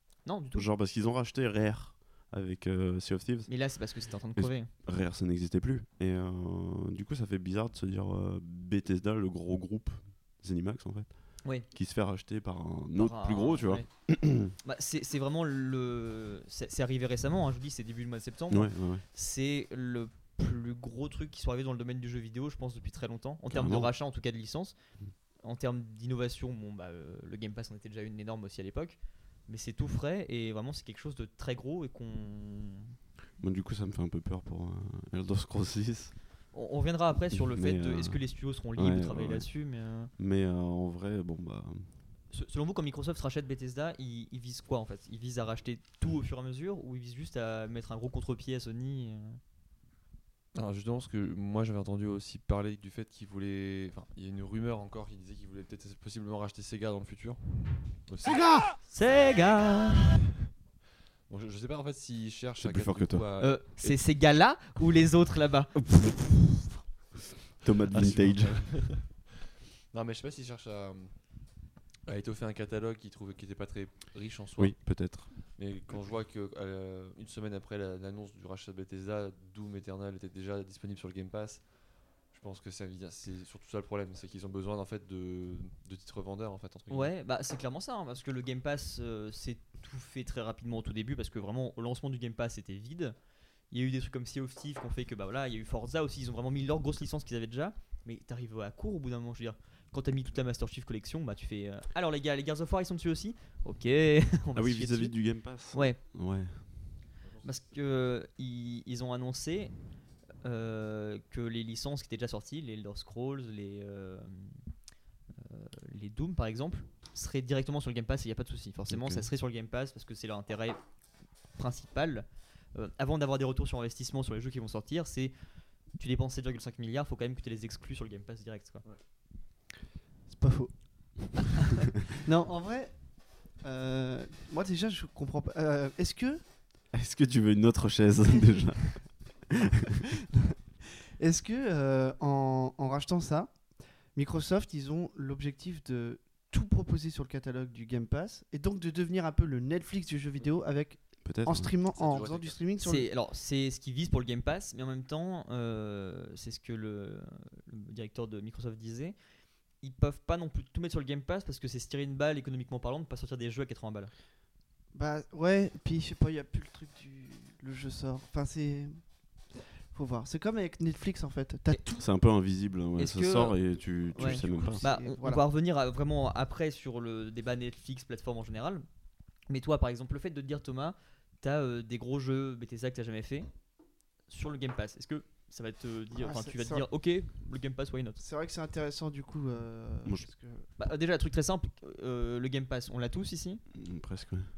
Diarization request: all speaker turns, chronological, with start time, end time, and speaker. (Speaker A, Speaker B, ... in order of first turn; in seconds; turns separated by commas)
Speaker A: 0.2-0.7, Speaker B: 0.5-14.6, Speaker A: 3.5-4.7, Speaker A: 13.0-13.8, Speaker A: 14.6-24.8, Speaker B: 18.5-19.0, Speaker B: 23.5-23.9, Speaker A: 25.4-32.9, Speaker B: 33.4-36.2, Speaker A: 36.5-40.1, Speaker B: 37.3-39.6, Speaker B: 40.2-41.9, Speaker A: 42.3-49.4, Speaker C: 50.5-58.7, Speaker A: 58.9-60.2, Speaker C: 61.3-64.1, Speaker B: 62.6-63.3, Speaker A: 63.4-65.7, Speaker B: 65.8-66.8, Speaker B: 67.6-69.0, Speaker C: 67.9-69.3, Speaker C: 69.9-71.5, Speaker C: 72.1-87.1, Speaker B: 74.6-76.0, Speaker A: 86.9-93.2, Speaker A: 93.7-106.0, Speaker B: 104.5-106.9, Speaker C: 107.2-107.5, Speaker A: 107.4-109.7, Speaker A: 110.4-114.6, Speaker A: 115.4-120.8, Speaker B: 118.9-119.3, Speaker A: 121.5-125.3, Speaker A: 125.9-128.8, Speaker D: 130.3-136.4, Speaker B: 136.9-139.5, Speaker D: 141.2-153.1, Speaker B: 151.2-151.7, Speaker C: 151.9-152.6, Speaker A: 152.8-159.2, Speaker A: 159.8-164.1, Speaker D: 164.9-171.8, Speaker A: 171.7-172.0, Speaker B: 172.0-174.8, Speaker A: 173.0-178.9, Speaker D: 174.1-175.4, Speaker A: 179.5-183.5, Speaker A: 184.3-188.2, Speaker D: 186.2-186.9, Speaker D: 188.2-190.7, Speaker B: 190.0-190.3, Speaker A: 190.8-193.6, Speaker B: 193.7-194.5